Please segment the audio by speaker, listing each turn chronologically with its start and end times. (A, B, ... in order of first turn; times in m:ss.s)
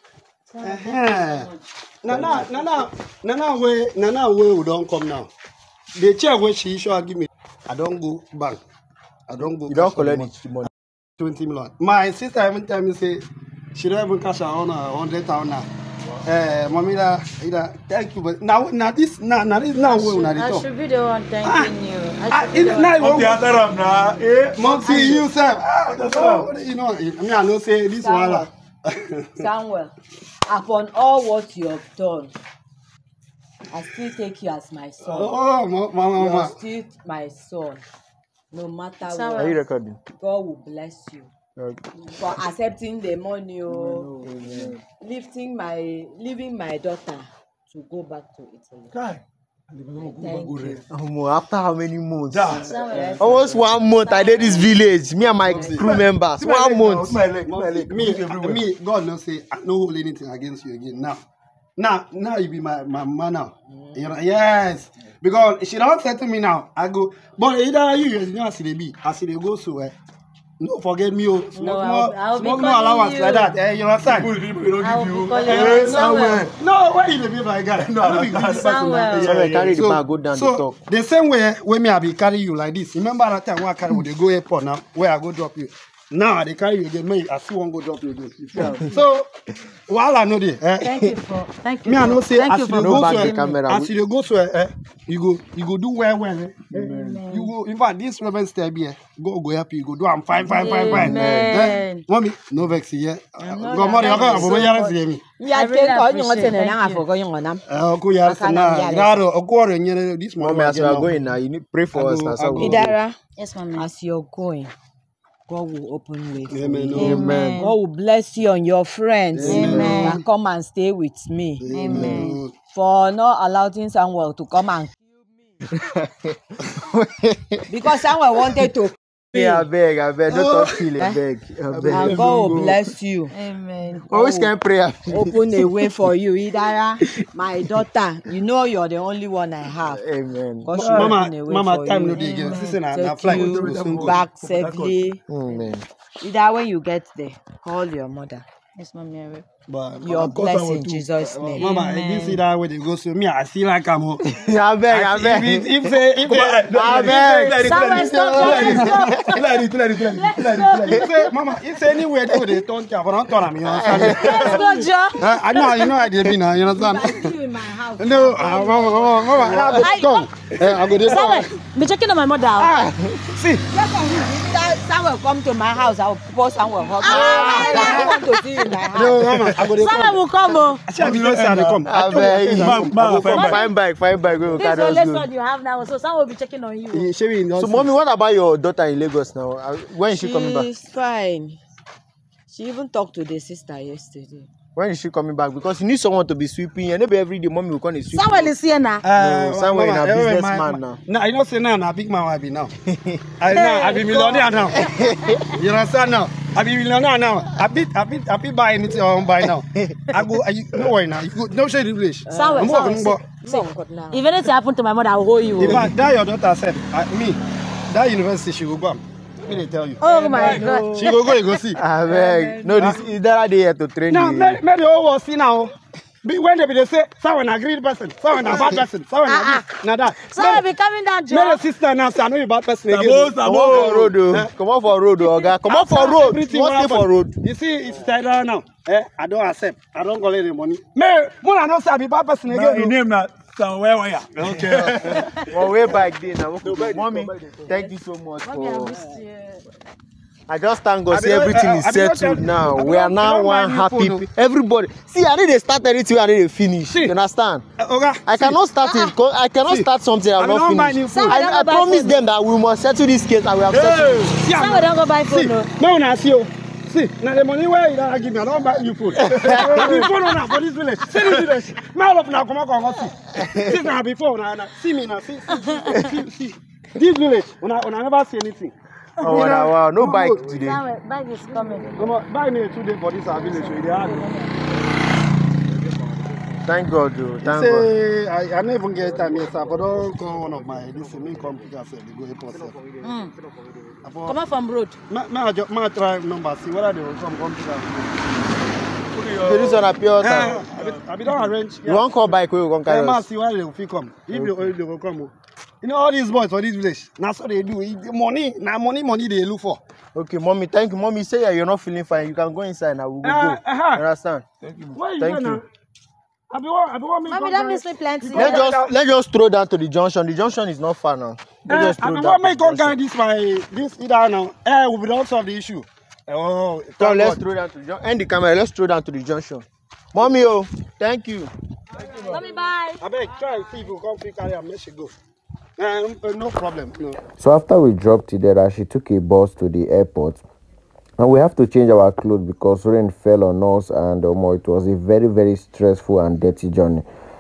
0:00.6-0:01.2 A
0:00.6-0:01.5 B
0:02.0-0:05.3 B
0:02.2-0:02.5 C
0:06.0-0:08.6 B
0:09.3-0:10.3 B
0:09.6-0:10.7 C
0:11.2-0:15.7 B
0:16.2-0:20.7 B
0:19.8-0:23.1 A
0:21.4-0:21.8 B
0:22.3-0:23.5 B
0:23.0-0:25.2 D
0:24.6-0:29.4 B
0:24.6-0:25.2 A
0:25.9-0:26.5 D
0:28.0-0:28.5 E
0:29.4-0:29.9 E
0:30.4-0:32.3 E
0:33.7-0:35.4 E
0:35.0-0:36.6 B
0:36.2-0:37.8 E
0:38.5-0:39.6 E
0:39.1-0:39.6 A
0:39.4-0:40.0 C
0:40.2-0:41.3 E
0:41.6-0:41.9 C
0:42.0-0:44.2 E
0:43.7-0:44.8 C
0:45.0-0:48.9 E
0:48.9-0:50.8 D
0:50.0-0:50.8 E
0:50.9-0:52.6 C
0:52.3-0:53.5 D
0:52.5-0:54.7 E
0:53.2-0:57.2 C
0:55.4-0:55.8 E
0:55.5-0:58.6 D
0:57.4-1:01.2 B
1:01.8-1:10.0 B
1:10.6-1:14.3 B
1:11.6-1:13.5 A
1:14.1-1:16.5 D
1:14.8-1:16.5 A
1:15.4-1:29.3 B
1:17.8-1:18.7 D
1:18.5-1:19.4 A
1:19.1-1:20.8 C
1:28.4-1:28.8 D
1:29.9-1:31.0 B
1:30.8-1:33.6 A
1:31.8-1:45.2 B
1:32.8-1:33.9 C
1:36.8-1:37.5 A
1:36.8-1:37.2 D
1:40.5-1:42.0 A
1:41.0-1:41.6 C
1:43.4-1:44.9 A
1:43.8-1:44.7 E
1:45.4-1:47.6 E
1:45.5-1:47.0 A
1:47.7-1:51.2 B
1:48.2-1:49.2 E
1:50.4-1:52.9 C
1:51.9-1:52.8 B
1:52.6-1:53.2 E
1:53.4-1:53.9 A
1:53.8-1:54.7 E
1:55.5-2:01.7 E
1:56.5-1:57.2 B
1:56.9-1:57.8 A
1:57.0-1:57.6 C
1:59.3-2:00.2 B
1:59.5-2:00.2 A
1:59.7-2:00.0 C
2:01.6-2:02.5 B
2:01.7-2:02.4 A
2:01.9-2:02.3 C
2:02.7-2:05.0 E
2:05.7-2:07.6 C
2:07.7-2:09.0 E
2:09.3-2:12.8 C
2:10.3-2:10.7 B
2:11.8-2:12.3 B
2:11.9-2:13.3 E
2:13.3-2:14.1 A
2:14.1-2:14.5 E
2:14.1-2:15.8 C
2:15.1-2:20.0 E
2:19.8-2:20.7 C
2:20.6-2:25.2 E
2:20.7-2:21.2 D
2:20.8-2:24.2 B
2:22.2-2:22.8 A
2:23.3-2:25.0 D
2:25.3-2:25.8 C
2:26.2-2:28.4 E
2:28.8-2:29.4 A
2:29.7-2:34.2 B
2:30.0-2:31.7 E
2:30.6-2:31.0 D
2:31.6-2:32.4 A
2:34.2-2:39.4 C
2:34.9-2:37.3 B
2:36.2-2:41.0 D
2:36.9-2:39.4 A
2:40.0-2:41.0 A
2:40.8-2:41.1 C
2:40.9-2:44.6 B
2:43.6-2:44.6 C
2:44.1-2:45.6 A
2:45.2-2:47.3 B
2:46.7-2:49.9 E
2:48.0-2:51.5 B
2:49.8-2:50.2 A
2:51.0-2:52.7 A
2:52.7-2:53.2 C
2:53.3-2:53.6 B
2:53.7-2:59.4 E
2:57.1-2:58.2 A
2:57.1-2:58.1 B
2:57.2-2:57.8 D
2:58.9-3:00.2 B
2:59.8-3:00.8 A
3:00.8-3:03.5 B
3:01.0-3:01.8 D
3:01.8-3:05.3 C
3:02.6-3:03.6 D
3:03.3-3:03.7 A
3:04.6-3:07.1 A
3:06.9-3:07.9 B
3:07.6-3:10.7 C
3:10.1-3:11.6 E
3:12.5-3:14.5 E
3:14.8-3:18.5 C
3:18.1-3:19.0 A
3:19.0-3:22.7 B
3:19.1-3:21.0 C
3:22.8-3:23.3 C
3:23.4-3:24.9 B
3:23.5-3:25.0 A
3:24.7-3:25.5 C
3:25.5-3:33.2 B
3:29.4-3:30.2 C
3:32.3-3:32.8 E
3:32.3-3:35.9 A
3:33.4-3:34.2 E
3:35.6-3:40.0 B
3:40.0-3:41.4 A
3:40.1-3:40.8 D
3:40.4-3:40.8 E
3:40.6-3:41.8 B
3:41.8-3:44.6 C
3:42.1-3:43.0 E
3:42.1-3:42.8 A
3:42.8-3:43.0 B
3:44.1-3:50.7 B
3:48.5-3:48.8 C
3:49.3-3:51.6 A
3:51.3-3:54.5 B
3:52.9-3:53.9 D
3:53.6-3:57.4 C
3:55.2-3:56.2 A
3:55.6-4:03.0 B
4:02.5-4:05.8 D
4:04.3-4:05.3 B
4:05.5-4:09.0 C
4:06.6-4:07.7 D
4:08.4-4:09.6 A
4:09.0-4:09.2 E
4:10.5-4:17.6 C
4:11.1-4:14.3 B
4:16.9-4:17.2 B
4:17.8-4:18.6 B
4:18.3-4:24.4 C
4:18.8-4:19.1 A
4:19.6-4:21.4 B
4:21.1-4:22.2 A
4:23.7-4:24.3 D
4:24.3-4:40.5 B
4:24.5-4:25.7 A
4:29.2-4:30.2 C
4:29.8-4:30.1 A
4:33.3-4:33.9 C
4:35.8-4:36.0 A
4:39.2-4:40.8 C
4:40.5-4:42.1 A
4:42.0-4:44.3 B
4:43.4-4:44.5 A
4:46.6-4:47.9 C
4:47.4-4:52.8 B
4:53.0-4:53.3 A
4:54.0-4:54.4 B
4:54.2-4:55.0 A
4:55.1-4:58.2 B
4:59.2-5:00.0 D
4:59.4-5:00.6 C
5:00.2-5:02.3 B
5:00.6-5:01.5 D
5:01.8-5:03.2 C
5:02.8-5:09.8 B
5:04.3-5:04.7 C
5:10.2-5:15.6 C
5:13.2-5:14.0 B
5:14.9-5:15.6 B
5:16.5-5:18.9 B
5:17.3-5:18.6 A
5:18.3-5:23.0 C
5:21.7-5:27.4 B
5:27.0-5:31.5 C
5:32.2-5:33.0 A
5:33.0-5:35.1 B
5:35.8-5:37.2 B
5:37.4-5:40.4 F
5:41.2-5:47.0 F